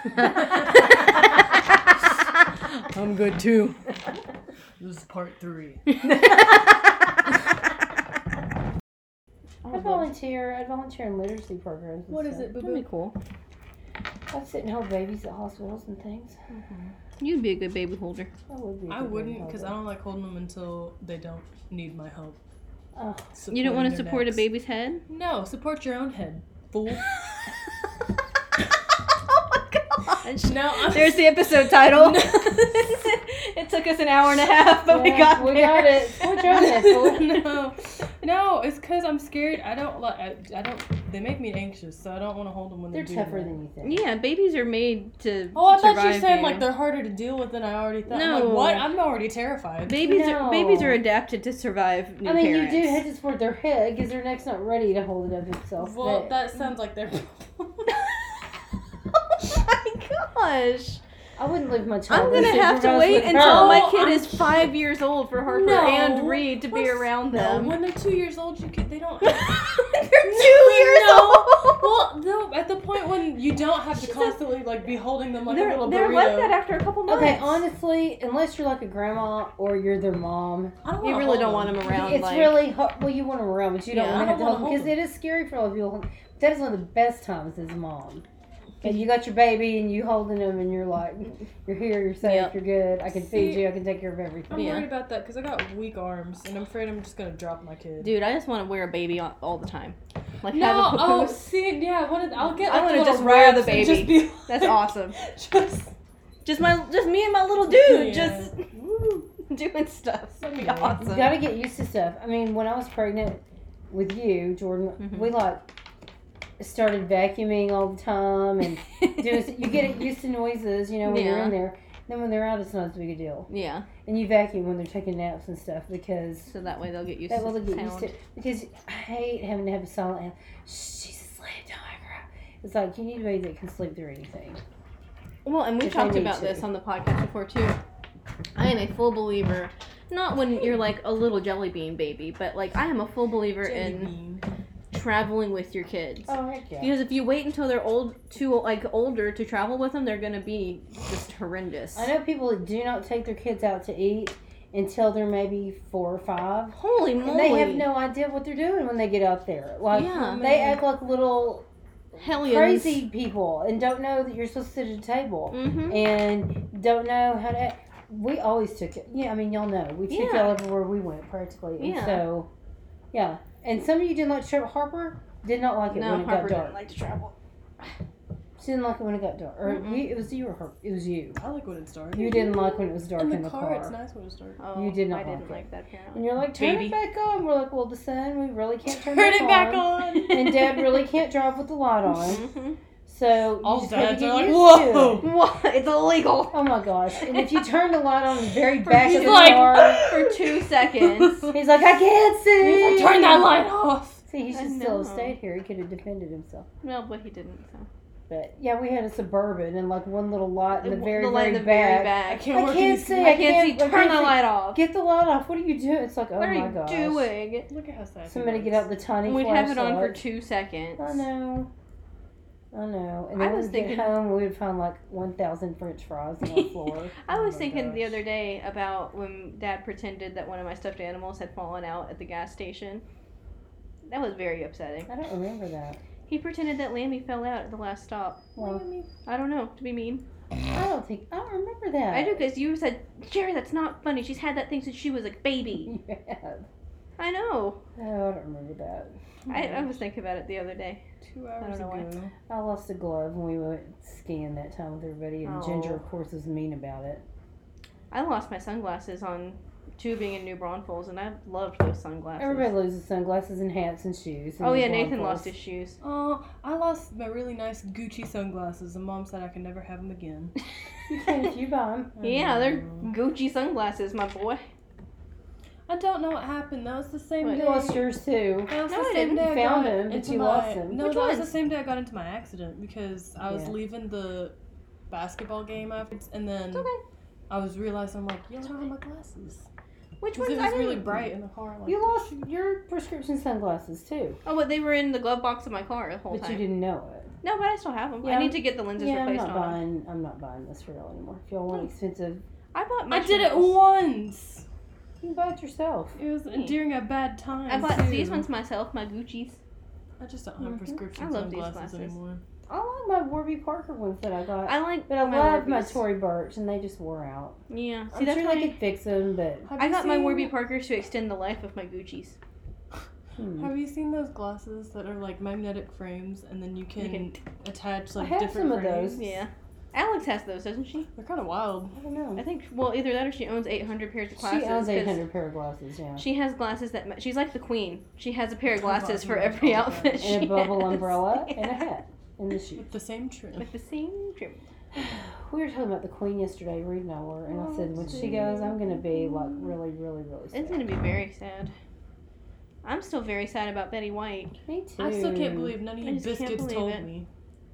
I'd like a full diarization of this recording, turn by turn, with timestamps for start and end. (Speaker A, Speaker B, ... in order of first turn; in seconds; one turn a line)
Speaker A: 0.2-1.3
Speaker B: 2.9-3.8
Speaker B: 4.8-5.8
Speaker A: 6.0-6.7
Speaker A: 9.6-10.1
Speaker C: 9.7-12.5
Speaker B: 12.1-12.8
Speaker A: 12.5-13.2
Speaker C: 14.3-16.4
Speaker B: 16.5-16.9
Speaker A: 17.2-18.3
Speaker C: 18.5-19.8
Speaker B: 18.9-22.4
Speaker C: 23.0-23.3
Speaker B: 23.3-24.4
Speaker A: 23.5-25.0
Speaker B: 25.1-27.1
Speaker A: 29.3-36.8
Speaker B: 30.4-32.9
Speaker C: 34.9-37.3
Speaker B: 36.4-43.6
Speaker C: 42.9-44.0
Speaker A: 43.8-46.7
Speaker B: 45.5-50.0
Speaker A: 48.1-48.9
Speaker A: 49.9-53.0
Speaker C: 50.0-51.0
Speaker C: 52.2-56.4
Speaker B: 55.8-58.1
Speaker A: 57.9-58.3
Speaker A: 59.1-61.0
Speaker C: 61.4-63.9
Speaker A: 62.1-67.8
Speaker B: 63.3-64.7
Speaker B: 65.5-76.6
Speaker A: 69.2-71.9
Speaker A: 74.0-74.4
Speaker A: 75.5-77.6
Speaker C: 77.1-80.8
Speaker B: 80.8-82.2
Speaker A: 81.0-82.6
Speaker C: 81.9-88.2
Speaker A: 83.9-84.3
Speaker B: 84.1-85.0
Speaker C: 88.8-94.7
Speaker A: 92.2-92.5
Speaker B: 93.3-93.7
Speaker B: 94.5-98.1
Speaker A: 94.5-94.9
Speaker A: 98.0-101.4
Speaker B: 100.5-105.9
Speaker A: 102.7-105.2
Speaker A: 106.5-108.6
Speaker B: 107.6-108.5
Speaker C: 108.7-109.2
Speaker A: 109.5-111.4
Speaker B: 110.4-111.0
Speaker C: 111.0-115.7
Speaker A: 115.0-115.3
Speaker C: 116.6-123.5
Speaker A: 121.0-121.6
Speaker A: 123.5-123.9
Speaker C: 124.0-126.5
Speaker A: 126.5-128.1
Speaker C: 127.3-134.6
Speaker A: 135.4-137.8
Speaker C: 135.8-136.7
Speaker A: 138.6-144.1
Speaker B: 143.6-144.5
Speaker A: 144.9-152.1
Speaker C: 146.3-146.9
Speaker C: 151.9-161.7
Speaker A: 156.8-157.9
Speaker A: 159.9-160.4
Speaker B: 160.0-160.8
Speaker A: 162.2-163.0
Speaker C: 162.3-172.5
Speaker A: 165.5-166.1
Speaker A: 170.1-170.6
Speaker A: 171.8-172.3
Speaker C: 173.1-176.8
Speaker A: 175.9-177.3
Speaker C: 178.6-181.4
Speaker A: 179.6-180.1
Speaker B: 181.4-184.6
Speaker C: 182.1-183.9
Speaker A: 184.6-186.9
Speaker C: 184.7-192.5
Speaker B: 188.9-190.5
Speaker A: 190.1-190.8
Speaker A: 192.2-192.8
Speaker C: 193.1-195.3
Speaker B: 193.6-195.3
Speaker A: 195.2-196.6
Speaker C: 196.5-200.1
Speaker A: 198.8-201.5
Speaker B: 199.0-201.6
Speaker C: 201.5-203.6
Speaker B: 202.6-204.2
Speaker C: 204.3-206.7
Speaker A: 204.5-205.3
Speaker A: 206.8-207.9
Speaker C: 208.3-217.3
Speaker A: 210.8-212.5
Speaker B: 212.3-213.3
Speaker A: 213.2-214.8
Speaker A: 216.4-217.7
Speaker B: 217.7-218.9
Speaker C: 218.3-220.2
Speaker A: 219.2-221.2
Speaker C: 221.0-221.7
Speaker C: 222.7-227.1
Speaker A: 223.4-224.2
Speaker A: 226.4-233.0
Speaker B: 227.3-228.2
Speaker A: 234.1-235.1
Speaker C: 235.1-236.0
Speaker A: 236.3-238.5
Speaker C: 238.6-238.9
Speaker B: 238.6-239.1
Speaker A: 239.3-240.2
Speaker C: 240.7-242.4
Speaker A: 242.1-245.9
Speaker C: 245.8-246.7
Speaker A: 247.2-247.8
Speaker C: 248.0-249.1
Speaker B: 249.5-249.9
Speaker A: 249.5-251.0
Speaker B: 251.2-252.3
Speaker A: 251.6-252.1
Speaker C: 252.5-257.2
Speaker A: 255.4-256.0
Speaker A: 258.1-262.7
Speaker C: 262.4-265.5
Speaker A: 264.6-266.0
Speaker B: 266.0-270.5
Speaker C: 271.1-272.2
Speaker B: 272.2-273.1
Speaker A: 272.2-274.6
Speaker B: 275.9-278.1
Speaker C: 277.5-278.7
Speaker B: 278.7-284.6
Speaker A: 278.9-279.5
Speaker C: 279.4-281.4
Speaker A: 281.0-281.5
Speaker C: 283.5-283.8
Speaker B: 285.1-286.9
Speaker A: 286.7-287.0
Speaker B: 287.5-289.7
Speaker A: 290.2-291.3
Speaker B: 290.3-292.3
Speaker C: 291.9-294.4
Speaker A: 294.5-296.6
Speaker C: 296.3-297.3
Speaker A: 297.4-299.8
Speaker C: 298.2-302.4
Speaker A: 302.7-303.8
Speaker B: 303.1-304.6
Speaker C: 305.2-306.1
Speaker B: 306.2-308.5
Speaker A: 306.5-306.8
Speaker A: 307.7-309.6
Speaker B: 310.2-312.4
Speaker C: 310.6-311.0
Speaker A: 311.1-312.1
Speaker C: 312.7-317.6
Speaker A: 314.7-316.0
Speaker A: 317.7-318.7
Speaker C: 318.1-319.7
Speaker B: 319.6-320.5
Speaker A: 319.8-322.4
Speaker C: 323.4-323.7
Speaker B: 323.6-329.2
Speaker A: 327.0-327.3
Speaker C: 328.2-329.2
Speaker A: 329.2-331.1
Speaker B: 331.1-332.0
Speaker C: 331.9-332.4
Speaker A: 332.4-335.2
Speaker C: 334.4-336.2
Speaker A: 336.2-341.8
Speaker B: 338.8-340.4
Speaker C: 340.2-342.9
Speaker B: 342.8-343.7
Speaker A: 343.6-344.7
Speaker C: 344.9-350.9
Speaker A: 347.5-349.7
Speaker B: 347.8-348.7
Speaker A: 350.5-351.8
Speaker A: 352.8-354.6
Speaker C: 354.7-355.8
Speaker B: 355.0-357.3
Speaker A: 356.0-357.1